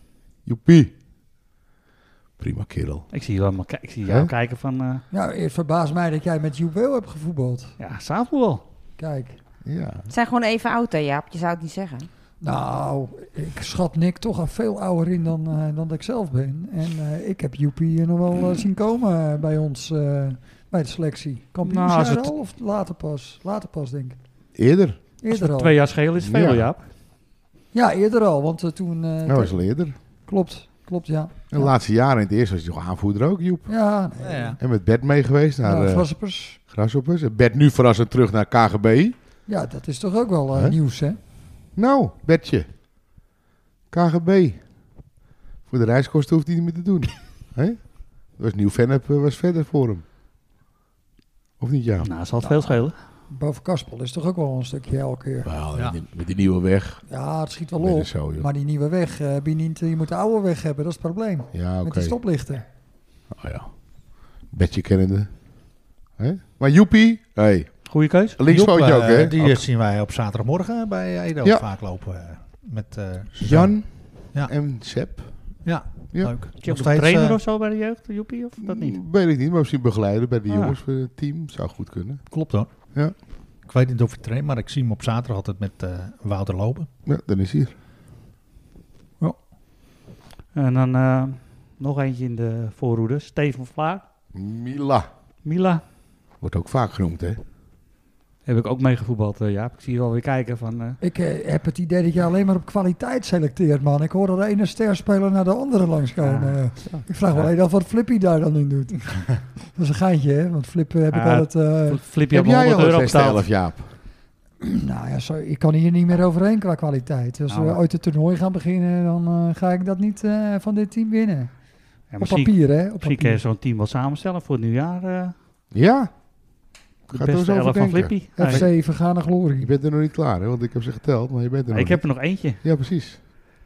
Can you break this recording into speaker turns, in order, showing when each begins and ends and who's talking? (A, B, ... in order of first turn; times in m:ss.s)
0:00.5-0:00.9 A
0:02.4-0:03.1 A
0:03.1-0:05.0 B
0:04.1-0:04.3 A
0:05.1-0:07.8 C
0:07.8-0:08.6 B
0:09.0-0:09.4 C
0:09.6-0:10.1 A
0:10.1-0:12.1 D
0:12.4-0:24.2 C
0:21.7-0:22.3 B
0:24.6-0:25.0 A
0:25.2-0:25.8 C
0:25.3-0:26.8 B
0:26.2-0:26.7 A
0:27.7-0:29.6 C
0:29.3-0:30.0 A
0:30.3-0:31.7 C
0:31.5-0:33.7 A
0:33.7-0:34.6 C
0:34.2-0:34.6 E
0:34.6-0:36.1 A
0:35.6-0:36.6 C
0:36.7-0:39.2 A
0:39.5-0:41.2 C
0:41.8-0:42.7 A
0:43.9-0:44.6 A
0:45.7-0:47.8 A
0:48.4-0:50.0 A
0:51.6-0:52.1 A
0:52.0-0:53.0 B
0:52.4-0:52.8 C
0:53.3-0:55.5 C
0:55.4-0:57.0 A
0:57.1-1:02.7 C
0:57.8-0:58.5 A
1:01.5-1:02.2 A
1:03.3-1:03.7 A
1:04.5-1:05.3 A
1:06.2-1:07.8 A
1:07.9-1:08.4 B
1:08.4-1:09.6 A
1:08.5-1:13.8 E
1:13.4-1:15.3 A
1:15.6-1:17.4 E
1:16.6-1:19.0 B
1:18.6-1:22.2 A
1:20.5-1:20.8 B
1:22.3-1:22.7 E
1:23.7-1:26.9 E
1:27.1-1:27.7 A
1:30.5-1:34.0 B
1:34.4-1:35.1 A
1:35.4-1:35.8 B
1:36.4-1:37.4 A
1:38.5-1:41.0 B
1:41.0-1:49.2 C
1:46.2-1:46.7 B
1:49.8-1:52.0 C
1:51.1-1:53.4 B
1:52.3-1:53.9 A
1:54.6-2:01.5 C
1:57.5-1:57.8 B
2:02.1-2:05.3 B
2:02.2-2:03.4 C
2:05.7-2:06.1 A
2:07.1-2:08.6 B
2:07.1-2:08.7 A
2:08.4-2:09.7 C
2:09.6-2:13.2 A
2:11.7-2:12.6 B